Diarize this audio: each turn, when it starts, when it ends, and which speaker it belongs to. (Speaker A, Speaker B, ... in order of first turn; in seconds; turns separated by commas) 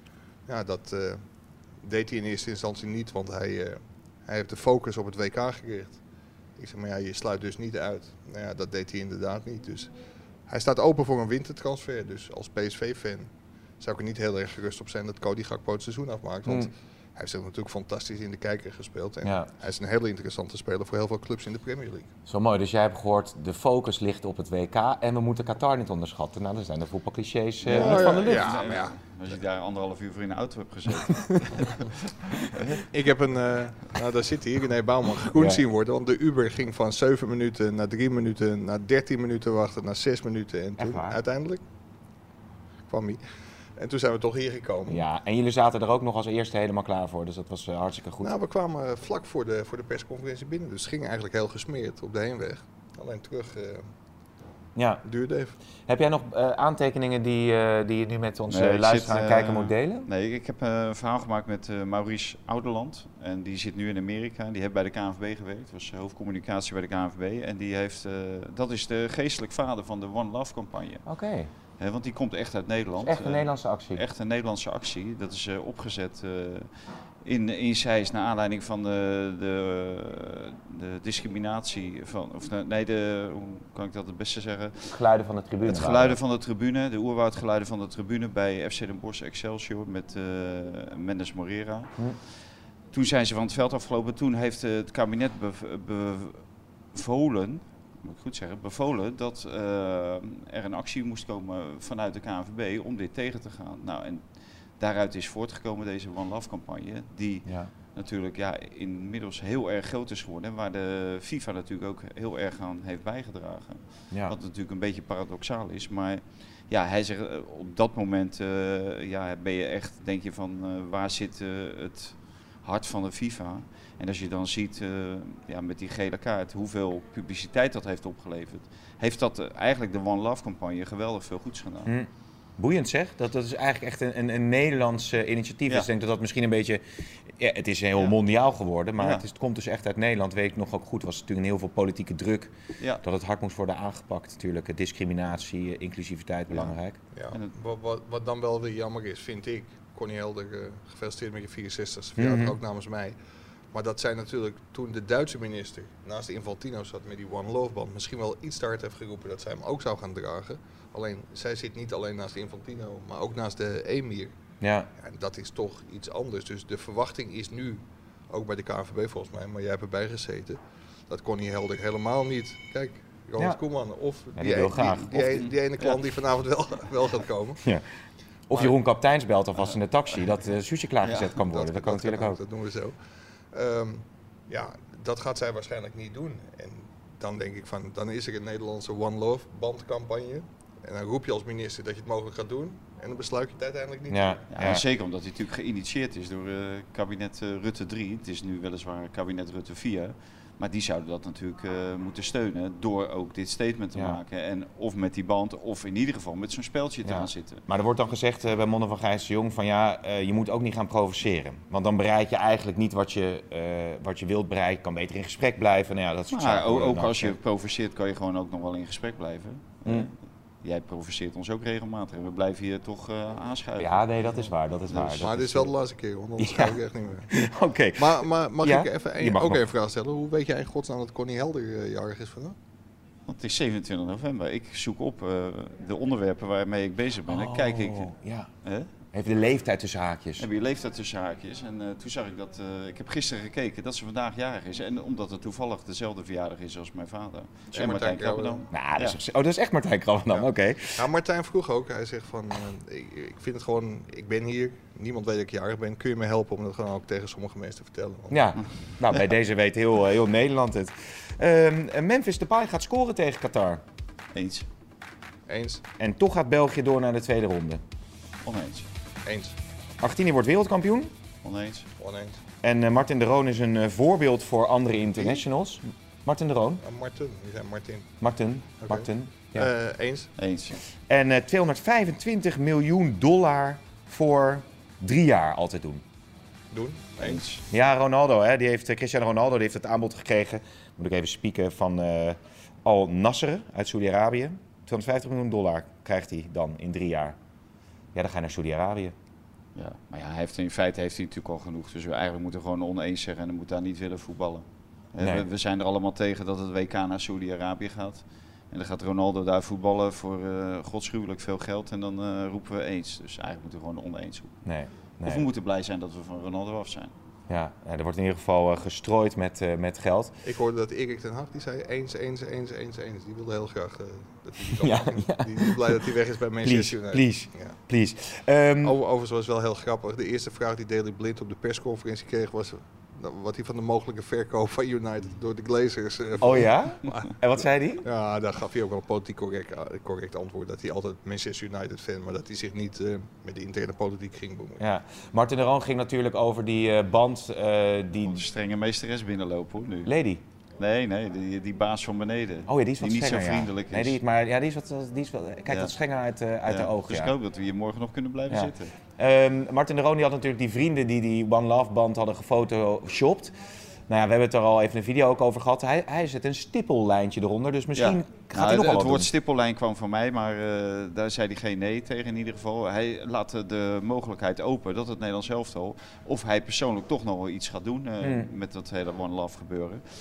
Speaker A: 0.5-1.2, Speaker A: 1.8-6.0, Speaker A: 6.6-9.9, Speaker A: 10.5-22.1, Speaker B: 16.5-16.7, Speaker B: 19.2-19.5, Speaker B: 22.3-28.6, Speaker A: 27.6-29.0, Speaker C: 27.7-32.8, Speaker B: 31.1-31.5, Speaker A: 32.9-41.6, Speaker B: 35.3-35.6, Speaker B: 40.8-41.2, Speaker A: 42.9-43.2, Speaker A: 43.8-45.0, Speaker B: 44.9-48.4, Speaker A: 48.2-53.9, Speaker B: 54.8-55.0, Speaker A: 55.0-55.5, Speaker B: 55.9-60.1, Speaker C: 58.5-71.0, Speaker B: 71.1-71.5, Speaker C: 71.8-76.7, Speaker B: 73.0-74.0, Speaker C: 77.2-85.0, Speaker B: 84.9-86.2, Speaker C: 85.7-92.0, Speaker C: 92.9-104.2, Speaker C: 104.8-131.9, Speaker B: 107.5-107.7, Speaker B: 114.1-114.4, Speaker B: 131.9-147.0, Speaker C: 139.0-139.2, Speaker A: 147.1-153.2, Speaker B: 152.2-152.6, Speaker A: 153.7-164.3, Speaker B: 164.6-164.9, Speaker A: 165.0-177.6, Speaker B: 174.4-175.4, Speaker C: 175.3-176.0, Speaker B: 178.5-182.4, Speaker C: 181.0-181.3, Speaker A: 181.4-182.9, Speaker A: 183.5-194.8, Speaker B: 194.1-194.8, Speaker C: 194.5-207.6, Speaker B: 203.9-204.2, Speaker B: 207.0-217.4, Speaker C: 216.3-224.1, Speaker B: 219.8-220.1, Speaker B: 223.8-225.7, Speaker C: 224.9-225.3, Speaker A: 225.2-227.3, Speaker B: 226.4-229.7, Speaker A: 228.0-232.6, Speaker C: 233.3-238.1, Speaker B: 237.3-238.5, Speaker C: 238.6-238.9, Speaker B: 239.1-240.5, Speaker C: 240.4-249.2, Speaker A: 247.7-248.7, Speaker B: 248.7-251.1, Speaker A: 250.3-258.5, Speaker B: 258.3-263.8, Speaker C: 264.3-264.7, Speaker A: 265.5-265.8, Speaker B: 266.0-267.8, Speaker C: 268.4-268.9, Speaker A: 269.2-269.6, Speaker B: 270.0-271.1, Speaker C: 271.4-271.9, Speaker A: 272.0-272.4, Speaker B: 272.6-276.8, Speaker A: 275.2-275.4, Speaker A: 276.8-278.1, Speaker B: 278.2-279.7, Speaker A: 278.8-280.3, Speaker C: 280.4-280.8, Speaker B: 281.1-286.0, Speaker A: 286.7-287.4, Speaker C: 287.2-287.6, Speaker B: 287.7-297.4, Speaker B: 298.1-299.1, Speaker C: 299.8-314.6, Speaker B: 305.2-305.5, Speaker B: 314.6-315.5, Speaker C: 315.2-317.1, Speaker B: 317.5-320.4, Speaker A: 320.4-327.8, Speaker B: 324.6-329.0, Speaker A: 328.8-337.3, Speaker B: 336.4-338.1, Speaker A: 338.0-344.8, Speaker B: 344.8-348.4, Speaker C: 348.2-350.1, Speaker B: 350.1-350.4, Speaker C: 350.8-354.2, Speaker B: 352.7-357.4, Speaker C: 356.7-358.9, Speaker B: 358.5-363.6, Speaker B: 364.1-369.3, Speaker C: 367.9-380.0, Speaker B: 378.2-378.5